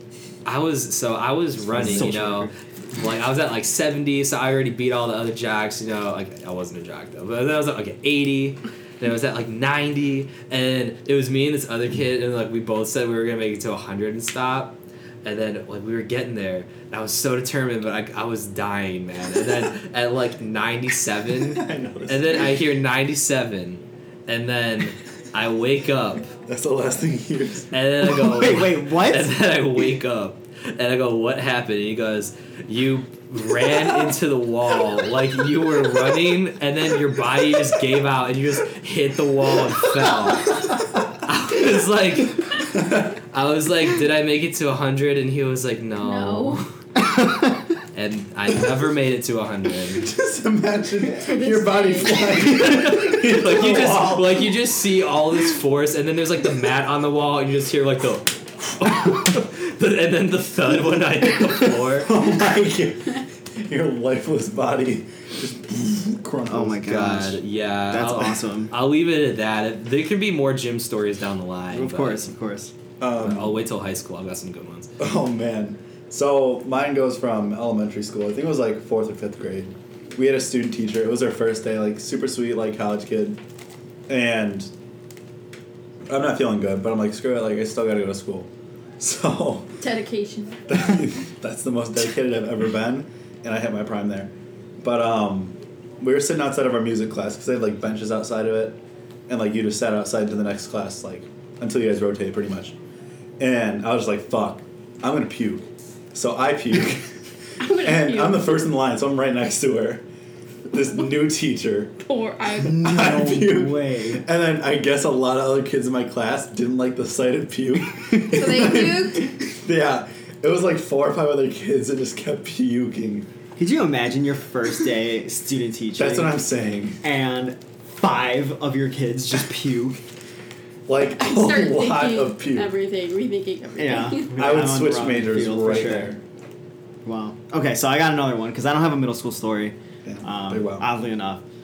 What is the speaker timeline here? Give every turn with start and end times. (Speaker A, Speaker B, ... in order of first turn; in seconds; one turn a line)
Speaker A: 0.4-26.3
Speaker B: 1.6-2.1
Speaker C: 1.7-2.5
Speaker B: 21.4-22.6
Speaker B: 26.4-27.8
Speaker A: 27.7-46.7
Speaker C: 28.2-29.4
Speaker B: 42.7-43.1
Speaker D: 46.0-46.6
Speaker C: 47.2-47.5
Speaker A: 47.9-50.1
Speaker B: 49.9-54.5
Speaker D: 51.0-52.5
Speaker A: 52.2-62.1
Speaker B: 61.9-67.0
Speaker C: 66.5-68.7
Speaker A: 66.8-72.3
Speaker C: 71.7-72.7
Speaker B: 73.0-73.6
Speaker A: 73.2-74.9
Speaker B: 75.0-83.4
Speaker B: 84.1-84.7
Speaker B: 86.1-89.7
Speaker D: 89.8-90.6
Speaker B: 90.7-102.7
Speaker B: 103.4-107.2
Speaker D: 107.6-108.5
Speaker B: 107.7-110.0
Speaker B: 110.7-112.0
Speaker D: 112.0-112.8
Speaker C: 112.5-114.2
Speaker B: 112.6-123.3
Speaker D: 118.3-119.3
Speaker C: 123.6-126.4
Speaker B: 126.0-127.0
Speaker C: 127.0-130.0
Speaker B: 130.9-132.7
Speaker D: 131.2-134.3
Speaker C: 133.8-136.1
Speaker B: 134.3-136.2
Speaker C: 137.0-141.4
Speaker B: 140.0-140.9